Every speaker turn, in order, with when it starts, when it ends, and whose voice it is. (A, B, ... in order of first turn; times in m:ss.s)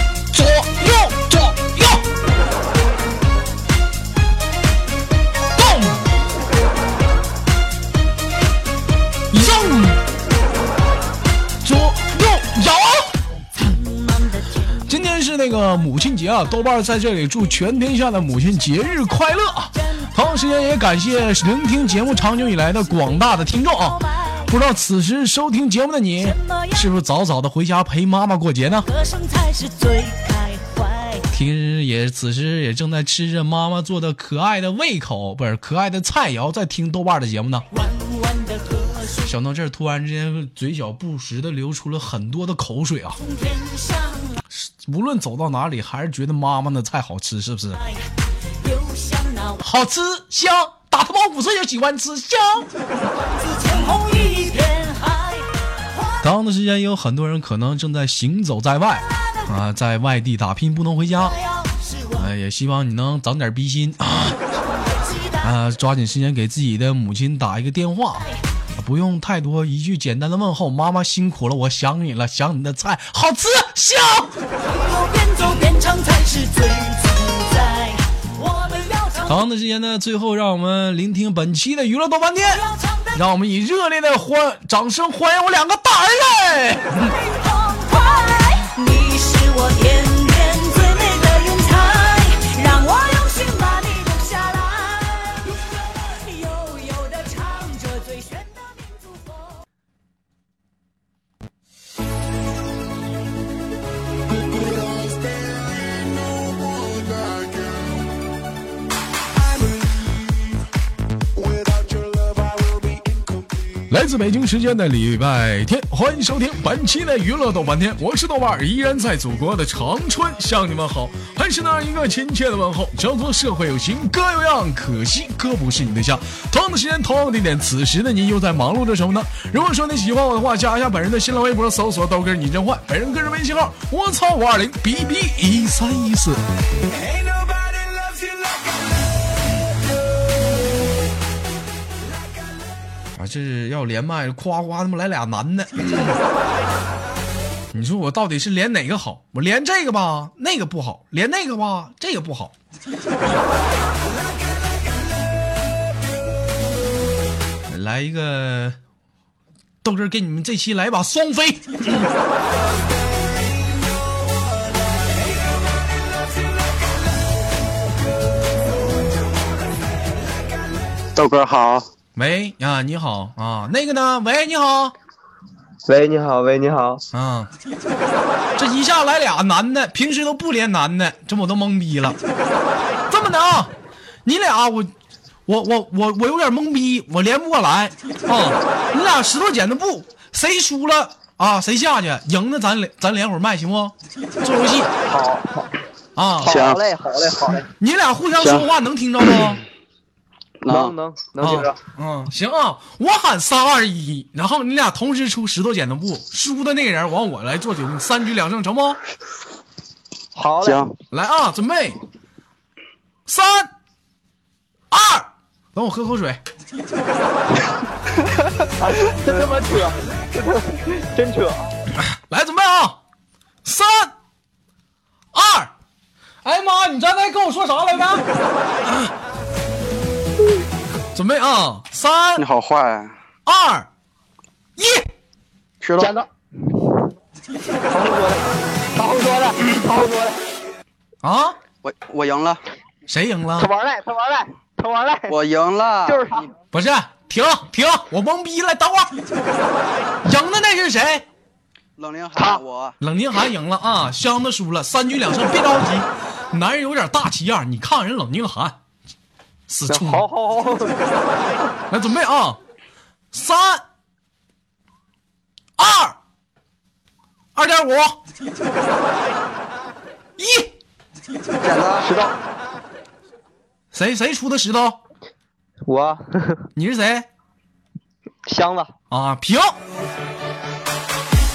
0:00.3-0:02.0 A
0:05.6-0:06.0 A
0:09.3-0:10.0 A
0:11.6-0:13.2 A
0:13.6-0:15.0 B
0:14.8-0:28.9 A
0:19.7-0:20.1 B
0:22.6-0:24.5 B
0:26.2-0:26.8 B
0:28.8-0:31.3 B
0:31.3-0:37.7 A
0:37.7-0:39.3 B
0:39.2-0:43.2 A
0:43.2-0:44.4 B
0:44.5-0:47.8 A
0:47.7-0:49.7 B
0:49.6-0:52.7 A
0:53.2-0:56.1 B
0:56.2-1:01.4 A
0:59.2-0:59.5 B
1:01.2-1:02.3 B
1:02.1-1:04.4 A
1:04.7-1:05.5 B
1:05.4-1:14.4 A
1:14.6-1:19.4 B
1:19.3-1:27.1 A
1:22.5-1:23.2 B
1:27.0-1:39.6 B
1:44.5-1:48.0 C
1:49.6-1:50.0 C
1:51.4-1:53.8 C
1:53.9-2:16.4 A
2:23.2-2:26.2 A
2:27.7-2:32.5 A
2:37.7-2:38.8 A
2:39.8-2:42.1 A
2:51.1-2:51.9 D
2:52.1-2:54.9 A
2:55.9-2:57.0 E
2:57.1-2:57.5 A
2:58.6-3:02.2 A
3:03.1-3:03.7 A
3:04.2-3:04.9 A
3:05.5-3:14.9 A
3:15.0-3:15.7 E
3:16.2-3:16.6 A
3:16.4-3:17.7 E
3:16.4-3:16.8 D
3:17.8-3:19.6 A
3:18.4-3:18.7 D
3:20.6-3:20.9 D
3:20.7-3:21.8 E
3:21.4-3:29.0 A
3:30.3-3:30.8 E
3:30.6-3:30.9 D
3:31.1-3:32.0 A
3:33.3-3:33.7 A
3:34.9-3:36.4 A
3:38.8-3:41.7 E
3:41.9-3:43.0 A
3:43.6-3:44.1 A
3:45.3-3:45.7 A
3:46.4-3:48.2 A
3:48.8-3:49.1 A
3:51.1-3:52.4 A
3:52.4-3:53.1 D
3:53.4-3:53.9 A
3:54.8-3:55.1 A
3:55.8-3:56.1 D
3:56.0-3:56.3 E
3:57.9-3:58.4 E
3:58.9-4:00.4 E
4:01.2-4:01.6 A
4:01.8-4:02.6 D
4:03.1-4:03.7 A
4:03.6-4:05.4 E
4:05.3-4:06.4 D
4:06.0-4:06.5 E
4:06.7-4:09.1 A
4:10.2-4:11.2 A
4:12.0-4:13.0 D
4:12.4-4:12.6 E
4:13.0-4:18.8 A
4:19.7-4:20.2 A
4:19.9-4:21.0 E
4:21.9-4:22.6 A
4:23.3-4:23.8 A
4:25.8-4:26.2 A
4:27.5-4:28.2 A
4:30.4-4:30.7 A
4:31.6-4:32.1 D
4:32.0-4:32.3 E
4:33.9-4:35.0 A
4:35.9-4:36.7 E
4:36.8-4:37.3 A
4:38.4-4:38.9 E
4:39.1-4:39.8 A